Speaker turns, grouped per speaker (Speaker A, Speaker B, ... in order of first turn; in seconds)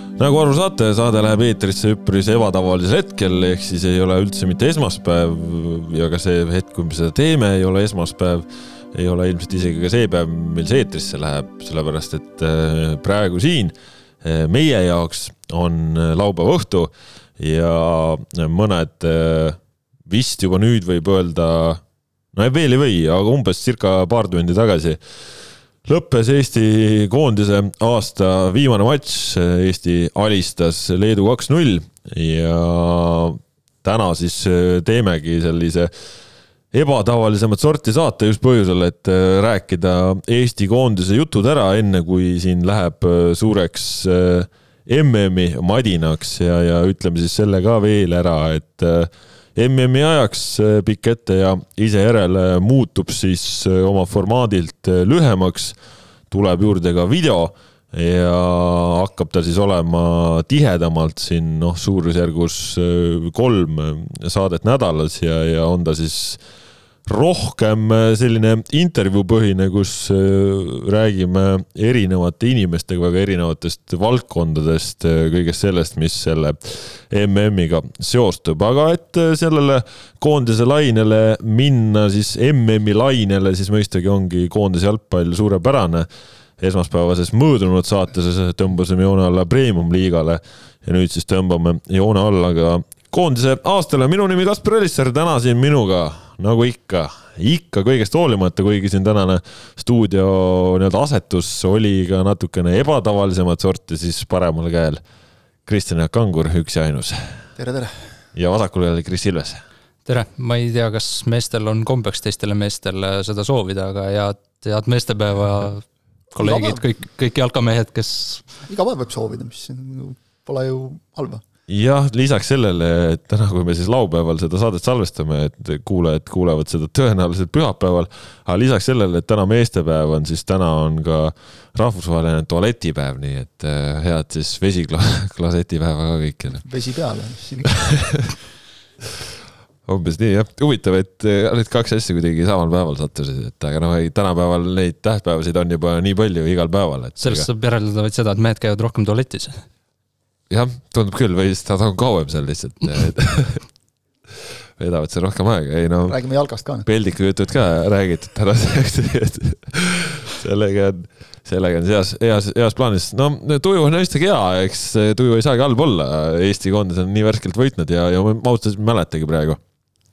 Speaker A: 0.1-21.8, 22.3-25.0, 25.9-35.9, 36.7-55.8, 56.3-66.4, 67.0-86.1, 86.6-105.0, 105.7-107.4, 108.3-109.6, 121.7-136.6, 137.8-138.2, 139.8-147.5, 150.5-153.6, 154.8-156.2, 156.8-169.6
Speaker B: 107.5-107.9, 116.4-116.8, 118.7-121.4, 136.6-137.8, 156.1-156.9
Speaker C: 110.0-118.5, 147.2-149.6